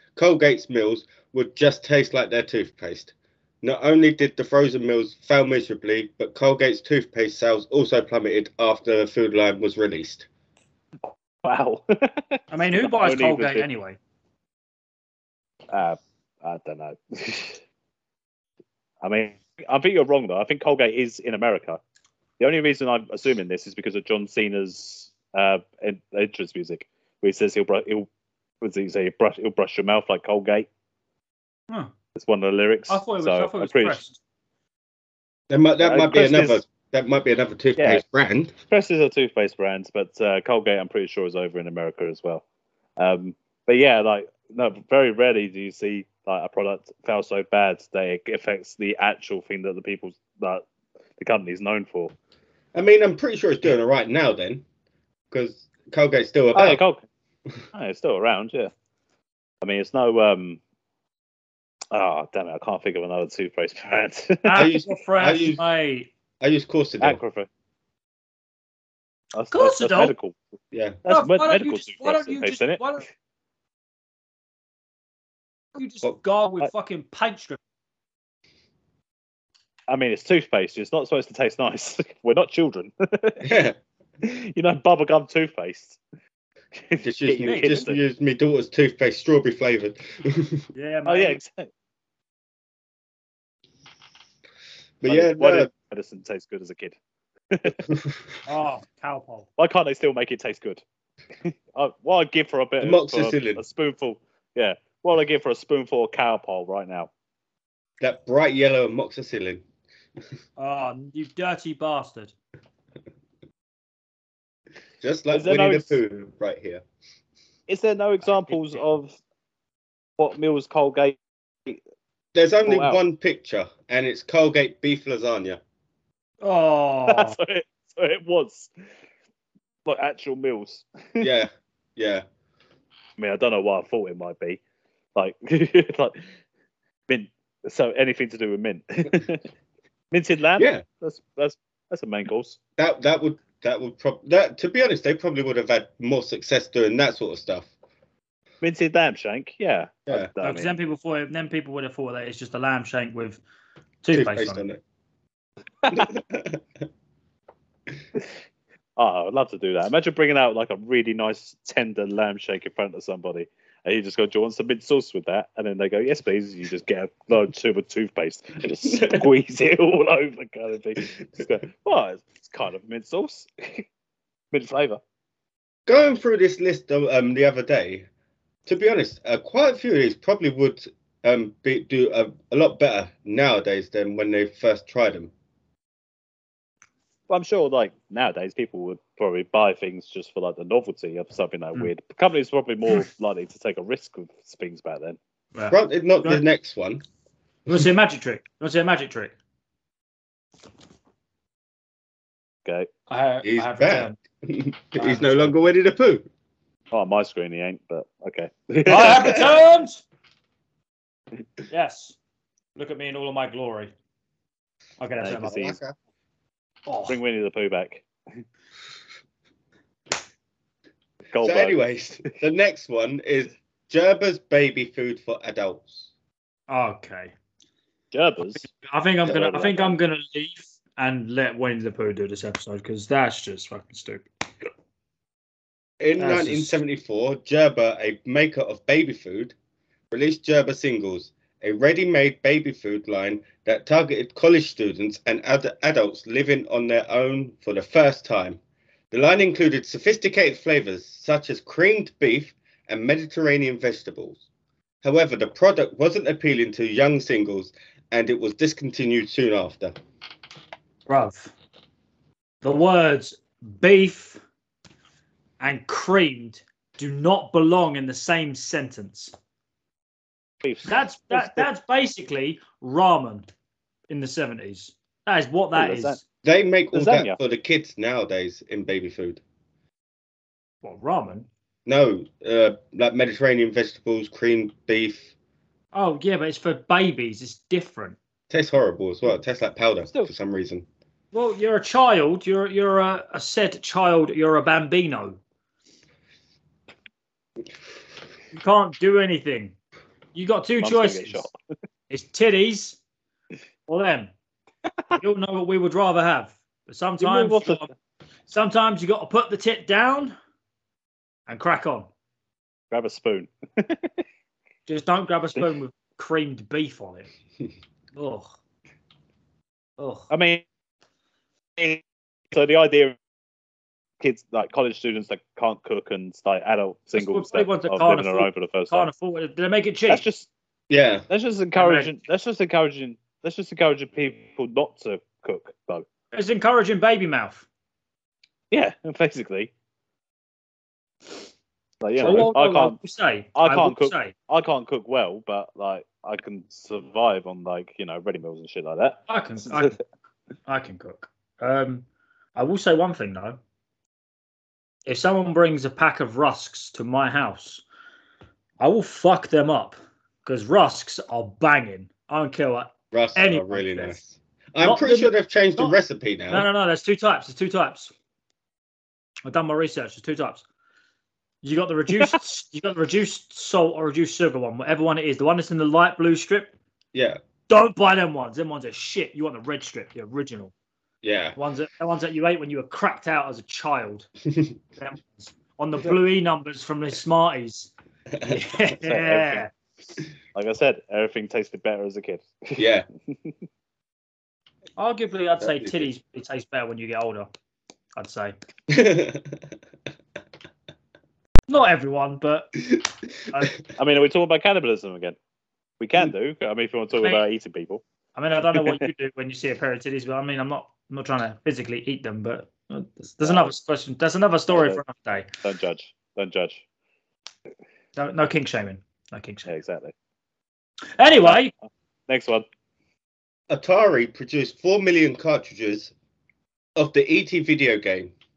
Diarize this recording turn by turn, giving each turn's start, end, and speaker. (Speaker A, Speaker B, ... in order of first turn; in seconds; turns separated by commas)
Speaker A: 0.1-10.3, Speaker B: 11.1-13.7, Speaker C: 12.5-14.0, Speaker B: 15.7-17.6, Speaker B: 19.0-21.8, Speaker B: 22.4-28.1, Speaker B: 28.6-30.7, Speaker B: 32.1-34.0, Speaker C: 32.9-34.2, Speaker A: 35.5-38.5, Speaker B: 35.8-36.6, Speaker B: 37.8-38.0, Speaker B: 38.7-42.4, Speaker B: 43.0-50.6, Speaker B: 51.2-52.1, Speaker A: 52.7-54.6, Speaker A: 55.3-56.8, Speaker B: 56.5-57.0, Speaker B: 57.7-58.7, Speaker B: 59.6-60.6, Speaker B: 61.9-64.7, Speaker C: 64.4-66.1, Speaker A: 64.5-65.6, Speaker A: 66.4-67.2, Speaker B: 67.0-67.5, Speaker B: 69.3-70.3, Speaker C: 69.5-70.1, Speaker A: 70.7-71.0, Speaker B: 71.0-72.8, Speaker C: 71.0-73.0, Speaker C: 75.7-77.6, Speaker B: 79.9-83.5, Speaker A: 83.4-83.8, Speaker B: 84.2-86.0, Speaker B: 86.7-88.0, Speaker A: 87.0-90.6, Speaker C: 87.5-87.8, Speaker C: 90.7-91.4, Speaker B: 91.0-91.7, Speaker A: 95.0-95.7, Speaker B: 95.1-97.0, Speaker B: 97.5-97.9, Speaker A: 97.9-98.2, Speaker C: 98.5-99.5, Speaker B: 99.6-100.8, Speaker B: 101.4-107.1, Speaker A: 102.8-103.6, Speaker A: 108.0-109.6, Speaker C: 110.6-112.3, Speaker A: 115.0-116.8, Speaker B: 115.3-116.0, Speaker B: 117.7-119.2, Speaker B: 120.2-121.8, Speaker A: 122.3-125.6, Speaker B: 122.7-123.0, Speaker C: 126.4-127.3, Speaker B: 127.1-128.7, Speaker B: 129.8-131.3, Speaker A: 131.2-132.2, Speaker B: 133.2-134.6, Speaker B: 135.2-136.2, Speaker B: 137.1-139.5, Speaker B: 140.1-142.6, Speaker A: 140.6-140.8, Speaker A: 142.8-147.7, Speaker B: 148.6-150.7, Speaker C: 150.4-153.4, Speaker C: 154.0-154.7, Speaker A: 154.1-154.8, Speaker A: 155.9-156.6, Speaker B: 159.0-173.8, Speaker A: 168.9-169.2, Speaker B: 174.5-175.0, Speaker A: 175.9-178.1, Speaker A: 178.7-185.3, Speaker B: 187.3-195.2, Speaker C: 195.5-196.4, Speaker A: 195.7-197.0, Speaker C: 197.7-199.3, Speaker C: 203.1-204.2, Speaker A: 203.4-206.3, Speaker C: 204.9-205.6, Speaker B: 206.9-209.4, Speaker C: 208.8-210.0, Speaker C: 211.7-212.2, Speaker C: 212.8-213.9, Speaker C: 215.0-215.7, Speaker B: 215.2-215.8, Speaker A: 215.4-215.9, Speaker C: 216.9-217.2, Speaker B: 217.1-218.0, Speaker B: 221.3-221.8, Speaker A: 221.4-226.1, Speaker C: 226.7-227.3, Speaker B: 228.1-228.7, Speaker C: 228.6-234.3, Speaker B: 229.3-230.0, Speaker A: 236.0-239.5, Speaker C: 236.2-236.8, Speaker A: 240.1-248.6, Speaker A: 249.1-254.4, Speaker A: 255.0-259.9, Speaker C: 261.1-261.5, Speaker C: 262.6-264.4, Speaker C: 265.6-269.3, Speaker B: 270.6-271.6, Speaker C: 270.8-273.5, Speaker C: 274.1-276.2, Speaker B: 275.7-276.2, Speaker A: 276.4-279.4, Speaker B: 276.9-277.4, Speaker C: 280.8-281.5, Speaker A: 281.9-285.3, Speaker C: 285.9-288.2, Speaker A: 288.5-290.9, Speaker C: 291.3-295.4, Speaker C: 298.5-299.7, Speaker C: 300.3-301.5, Speaker B: 300.8-301.5, Speaker C: 302.1-303.0, Speaker C: 303.9-304.3, Speaker C: 305.2-307.9, Speaker B: 307.2-307.8, Speaker C: 308.5-310.3, Speaker C: 311.5-312.1, Speaker B: 312.9-314.1, Speaker C: 314.9-317.3, Speaker C: 318.1-318.5, Speaker C: 320.0-320.3, Speaker B: 320.3-320.6, Speaker B: 321.8-323.1, Speaker B: 324.2-329.1, Speaker C: 327.1-330.2, Speaker B: 330.1-330.5, Speaker A: 330.9-331.2, Speaker B: 331.3-336.1, Speaker C: 331.7-332.1, Speaker C: 336.3-337.6, Speaker B: 338.7-339.7, Speaker B: 342.0-343.0, Speaker C: 342.2-344.3, Speaker B: 343.6-349.8, Speaker C: 349.3-350.0, Speaker C: 350.6-353.6, Speaker C: 355.1-357.8, Speaker C: 358.8-364.2, Speaker A: 363.1-366.7, Speaker C: 364.8-366.0, Speaker C: 366.5-368.1, Speaker C: 369.4-370.6, Speaker C: 371.6-376.7, Speaker A: 377.1-377.4, Speaker C: 377.7-380.7, Speaker A: 381.2-381.6, Speaker C: 381.6-384.3, Speaker C: 385.0-387.9, Speaker A: 388.3-388.6, Speaker C: 388.4-389.7, Speaker B: 389.0-389.6, Speaker B: 390.5-392.9, Speaker A: 392.8-393.1, Speaker C: 395.0-397.5, Speaker A: 395.6-396.1, Speaker C: 398.1-398.5, Speaker A: 398.9-399.6, Speaker C: 401.7-402.8, Speaker B: 403.9-405.4, Speaker B: 406.0-408.0, Speaker C: 408.4-415.5, Speaker B: 408.7-409.0, Speaker B: 413.4-413.7, Speaker B: 414.7-415.0, Speaker B: 415.6-416.8, Speaker C: 418.1-419.7, Speaker B: 419.7-420.1, Speaker C: 421.2-421.7, Speaker B: 422.3-422.6, Speaker A: 423.7-426.1, Speaker A: 427.0-428.3